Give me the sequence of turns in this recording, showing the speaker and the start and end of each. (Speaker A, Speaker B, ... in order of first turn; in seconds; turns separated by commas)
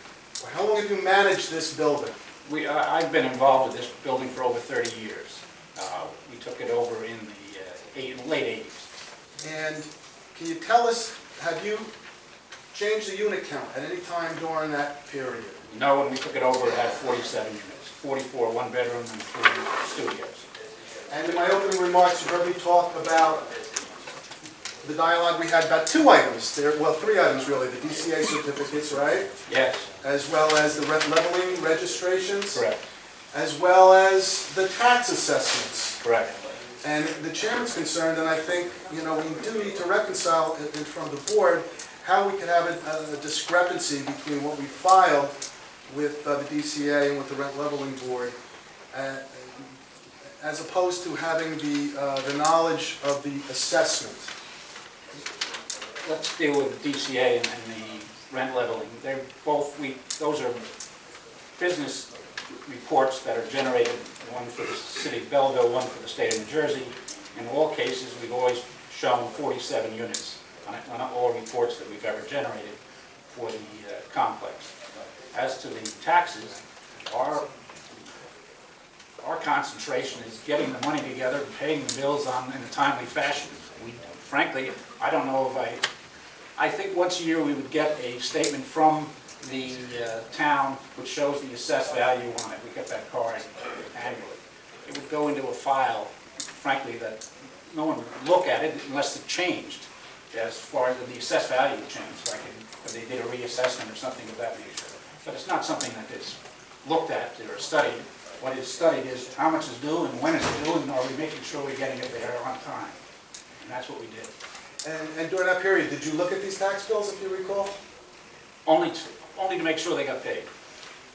Speaker A: 0.4-2.1, Speaker B: 2.5-8.9, Speaker A: 9.4-11.9, Speaker A: 12.7-15.6, Speaker B: 15.7-20.4, Speaker A: 21.1-23.5, Speaker A: 24.8-29.3, Speaker B: 29.5-29.9, Speaker A: 30.0-32.6, Speaker B: 32.5-32.8, Speaker A: 33.3-36.0, Speaker B: 36.0-36.3, Speaker A: 36.8-45.3, Speaker A: 45.9-48.4, Speaker A: 48.9-49.7, Speaker A: 50.4-54.3, Speaker B: 56.0-60.6, Speaker B: 61.5-62.1, Speaker B: 62.6-72.8, Speaker B: 73.3-74.7, Speaker B: 75.3-77.5, Speaker B: 79.2-85.8, Speaker B: 86.6-113.0, Speaker B: 113.6-114.3, Speaker A: 114.8-117.8, Speaker B: 118.7-120.5